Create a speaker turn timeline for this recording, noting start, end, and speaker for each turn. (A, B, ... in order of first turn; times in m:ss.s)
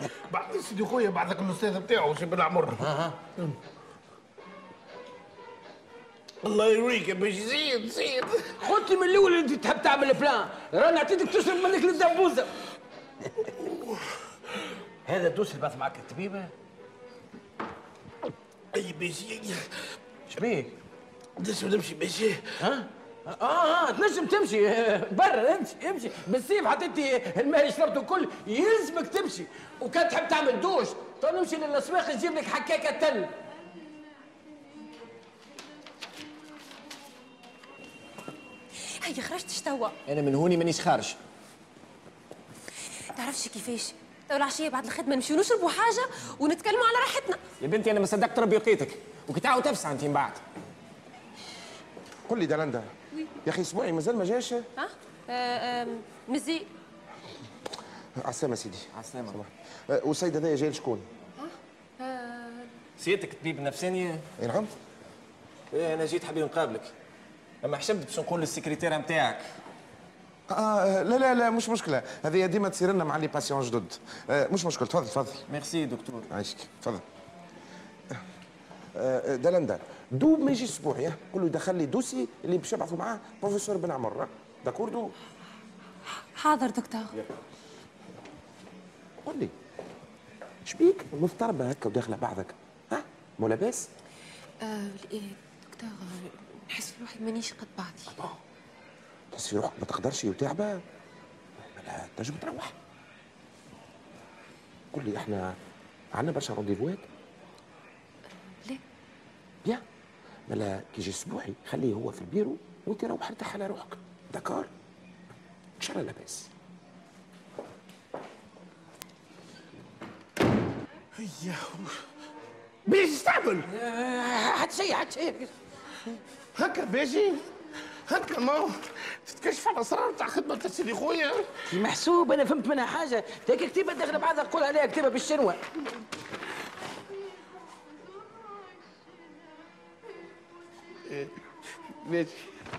0:00.3-0:03.0 A
0:06.4-0:08.5 A
0:08.6-0:12.5 B
0:13.6-0:14.0 A
0:15.0-0:16.5 B
0:18.7-0:19.6 A
0:20.3-0:20.7 B
0:21.4-0:22.4 A
0:22.6-0:33.3 B
0:39.0-0:40.0 C
0:40.1-0:41.2 D
0:43.2-0:47.4 C
0:47.6-0:50.4 D
0:52.3-0:52.9 E
0:53.4-0:54.7 E
0:54.8-0:56.7 C
0:58.2-1:01.1 E
0:59.0-0:59.4 D
1:01.4-1:02.7 C
1:03.0-1:04.2 D
1:04.4-1:04.7 E
1:05.7-1:06.9 D
1:07.6-1:09.5 D
1:10.5-1:15.4 E
1:15.5-1:16.3 D
1:16.3-1:17.0 E
1:19.0-1:25.1 E
1:26.4-1:27.1 C
1:29.2-1:29.5 E
1:30.6-1:33.9 E
1:34.6-1:38.2 C
1:39.3-1:40.8 E
1:41.6-1:42.8 E
1:44.9-1:45.6 E
1:46.2-1:47.1 E
1:50.5-1:54.7 E
1:55.8-1:56.5 E
2:01.2-2:02.0 A
2:02.9-2:03.7 A
2:03.7-2:05.5 B
2:06.6-2:07.4 A
2:08.1-2:11.4 A
2:11.7-2:15.6 B